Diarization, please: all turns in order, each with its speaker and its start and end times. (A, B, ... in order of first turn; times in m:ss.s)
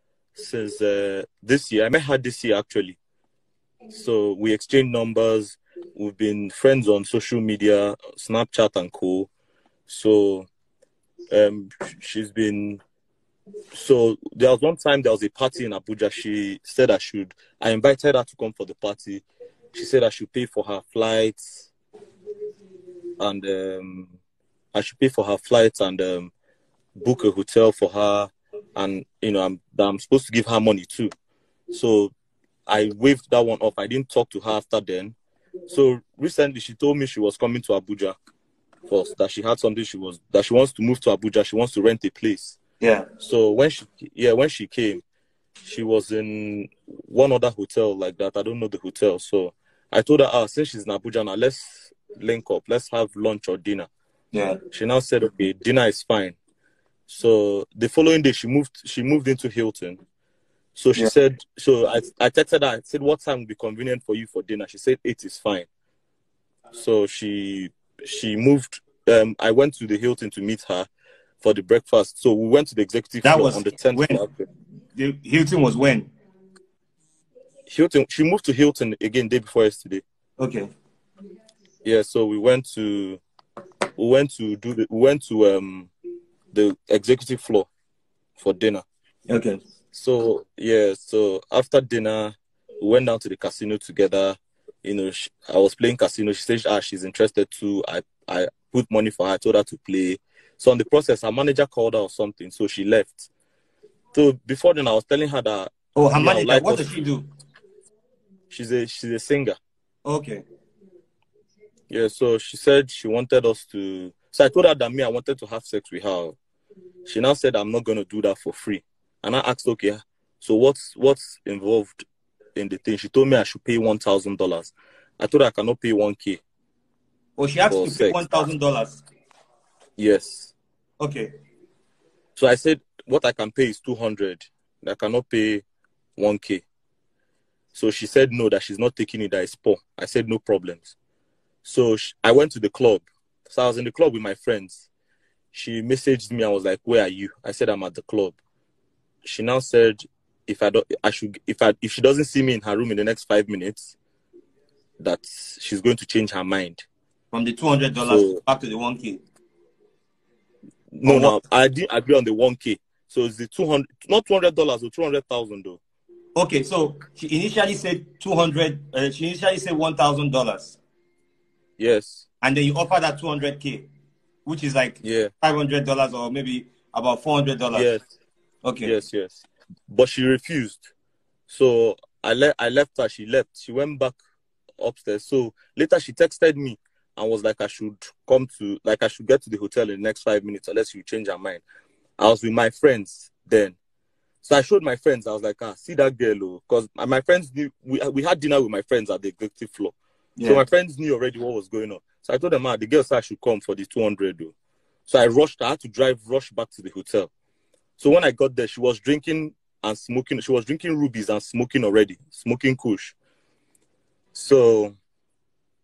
0:00.4-0:03.0 A
0:03.9-0:09.3 A
0:09.9-0:10.5 A
0:11.3-0:12.8 A
0:13.7-0:21.7 A
0:23.2-0:24.1 A
0:24.7-0:26.3 A
0:27.0-0:31.1 A
0:31.7-0:32.1 A
0:32.7-0:35.2 A
0:35.7-0:38.2 A
0:38.9-0:42.6 A
0:42.8-0:43.1 B
0:43.2-0:45.0 A
0:45.6-0:53.9 A
0:54.3-0:54.6 B
0:54.7-0:56.4 A
0:57.1-1:00.0 A
1:00.8-1:05.7 A
1:06.7-1:10.9 A
1:11.4-1:14.4 A
1:13.2-1:14.2 B
1:14.9-1:16.1 B
1:17.7-1:20.0 A
1:20.4-1:20.7 B
1:21.8-1:23.2 A
1:24.0-1:25.9 A
1:26.5-1:27.7 A
1:28.4-1:28.8 A
1:29.3-1:29.6 B
1:29.9-1:43.3 A
1:44.1-1:46.9 A
1:46.0-1:47.2 B
1:48.5-1:49.6 A
1:50.0-1:50.4 B
1:51.9-1:56.4 A
1:57.1-2:02.0 A
2:02.6-2:06.4 A
2:07.4-2:09.0 B
2:07.7-2:08.4 A
2:10.0-2:10.5 A
2:11.0-2:11.3 B
2:12.4-2:15.6 A
2:16.2-2:16.6 A
2:17.7-2:20.9 A
2:21.6-2:24.9 A
2:25.5-2:28.4 A
2:29.2-2:34.0 A
2:35.0-2:36.8 A
2:37.3-2:39.2 B
2:38.0-2:38.4 A
2:41.0-2:45.8 A
2:41.0-2:41.4 B
2:46.4-2:50.8 B
2:51.8-2:52.2 A
2:52.4-2:53.9 B
2:54.4-2:57.9 B
2:55.0-2:55.3 A
2:57.7-2:58.0 A
2:58.6-2:58.9 B
2:58.8-3:00.9 A
3:01.5-3:04.2 A
3:04.8-3:11.6 A
3:12.2-3:13.8 A
3:14.4-3:24.5 A
3:20.4-3:20.6 B
3:25.1-3:27.3 A
3:28.0-3:33.2 A
3:34.3-3:34.9 A